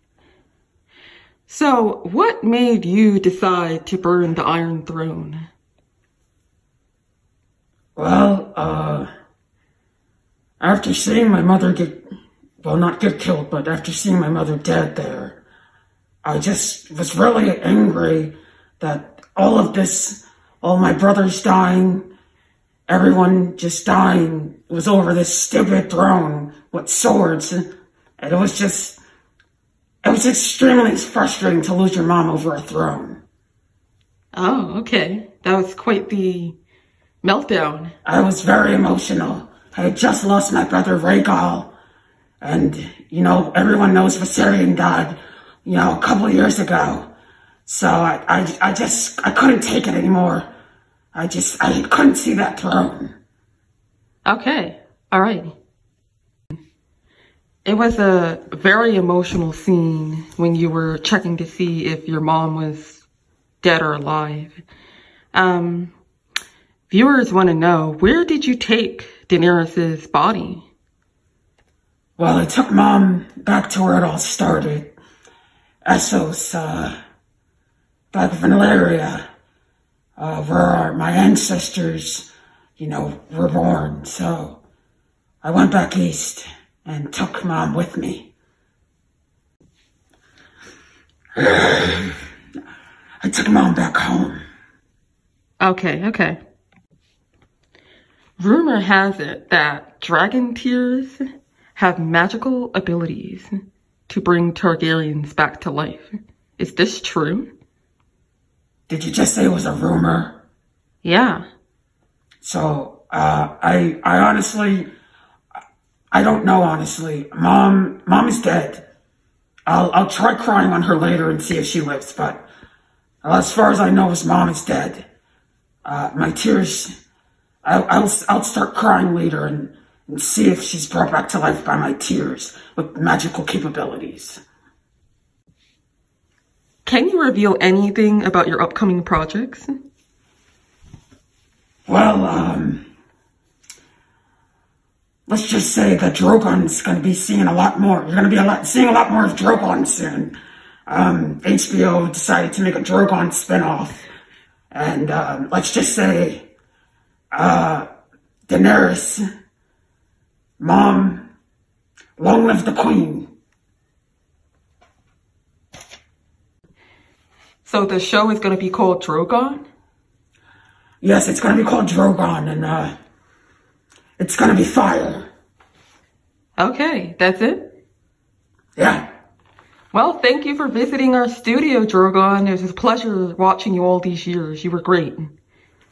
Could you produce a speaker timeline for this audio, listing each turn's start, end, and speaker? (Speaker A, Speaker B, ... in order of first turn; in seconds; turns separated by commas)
Speaker A: 1.5-5.5, Speaker B: 8.0-9.1, Speaker B: 10.6-12.0, Speaker B: 12.6-15.4, Speaker B: 16.2-22.1, Speaker B: 22.9-29.0, Speaker B: 30.0-33.2, Speaker A: 34.3-36.6, Speaker A: 37.2-37.9, Speaker B: 38.0-41.7, Speaker B: 42.4-47.1, Speaker B: 47.7-50.5, Speaker B: 51.1-53.1, Speaker A: 54.3-55.5, Speaker A: 57.6-63.0, Speaker A: 63.6-64.6, Speaker A: 65.3-65.9, Speaker A: 66.9-70.7, Speaker B: 72.2-75.0, Speaker B: 75.8-76.9, Speaker B: 78.1-79.2, Speaker B: 80.2-84.6, Speaker B: 85.4-88.3, Speaker B: 91.4-92.2, Speaker B: 93.2-94.4, Speaker A: 95.6-96.4, Speaker A: 98.4-101.2, Speaker A: 101.8-103.5, Speaker A: 104.1-107.5, Speaker B: 108.9-110.4, Speaker A: 111.0-111.4, Speaker B: 112.4-114.9, Speaker B: 116.1-118.9, Speaker B: 119.7-122.5, Speaker B: 123.2-125.1, Speaker B: 125.8-126.9, Speaker B: 127.6-134.4, Speaker A: 136.8-139.7, Speaker B: 141.9-142.8, Speaker B: 145.3-150.3, Speaker B: 150.9-154.1, Speaker B: 154.7-156.5, Speaker B: 157.3-157.9, Speaker B: 158.5-159.2, Speaker B: 160.6-161.3, Speaker B: 162.2-163.3, Speaker A: 167.6-169.7, Speaker B: 171.0-172.9, Speaker B: 174.2-175.3, Speaker A: 176.6-177.6, Speaker B: 178.8-179.0, Speaker A: 179.9-185.3